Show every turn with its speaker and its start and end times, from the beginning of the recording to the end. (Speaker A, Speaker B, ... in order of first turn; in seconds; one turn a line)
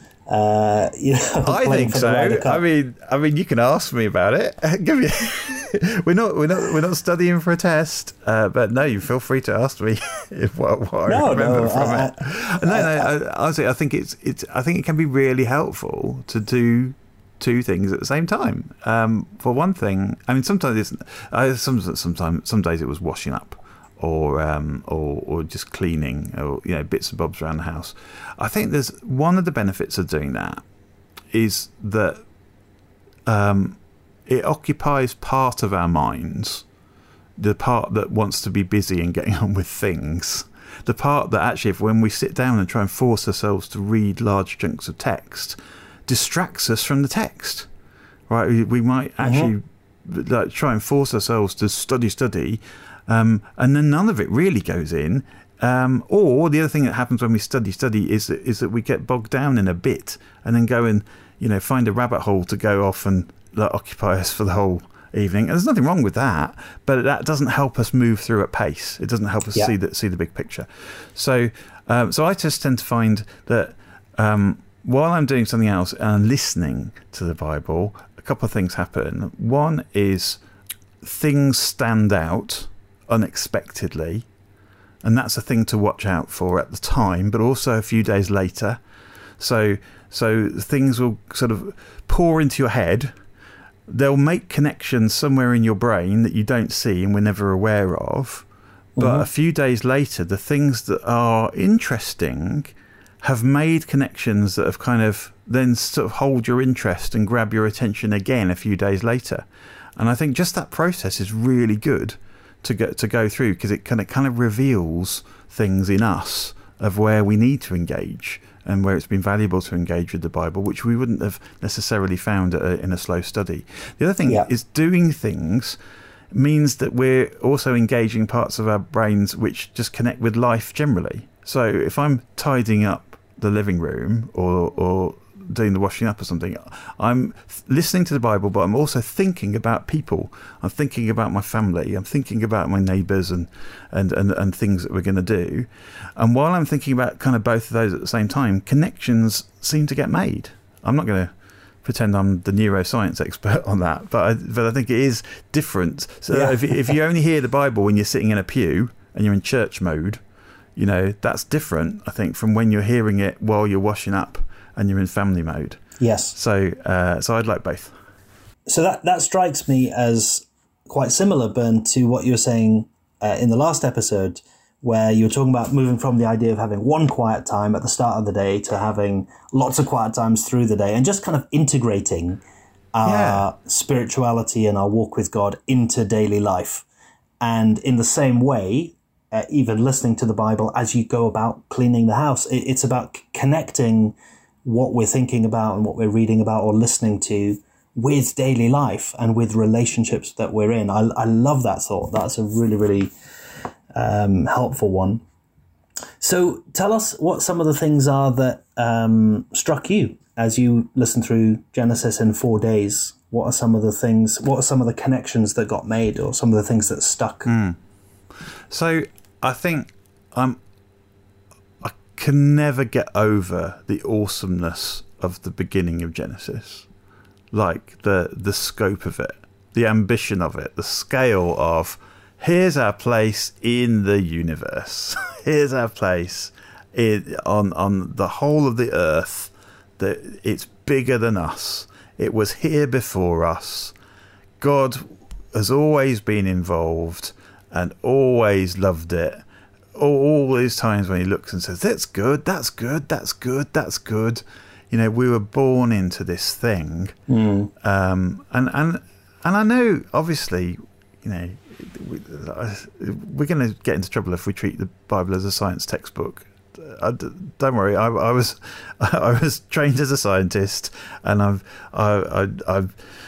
Speaker A: 0.3-2.6
Speaker B: 1.4-30.6
Speaker A: 11.0-13.1
Speaker B: 31.3-32.2
Speaker B: 33.3-36.6
Speaker B: 37.4-47.6
Speaker B: 48.3-80.4
Speaker A: 49.2-49.5
Speaker B: 81.0-84.3
Speaker B: 85.0-88.8
Speaker B: 89.4-93.1
Speaker B: 93.9-98.4
Speaker A: 99.0-99.3
Speaker B: 99.0-109.4
Speaker B: 110.0-125.8
Speaker B: 126.3-151.3
Speaker B: 151.8-160.2
Speaker A: 156.3-156.9
Speaker B: 160.8-165.8
Speaker A: 166.0-166.3
Speaker B: 166.3-167.9
Speaker A: 168.7-182.4
Speaker A: 182.9-186.8
Speaker B: 183.0-183.4
Speaker A: 187.4-203.1
Speaker A: 203.9-205.2
Speaker A: 206.2-217.5
Speaker B: 217.4-217.8
Speaker B: 218.7-220.6
Speaker B: 221.8-226.9
Speaker B: 227.5-243.9
Speaker B: 244.6-249.4
Speaker B: 249.9-257.1
Speaker A: 257.3-257.7
Speaker B: 257.8-272.9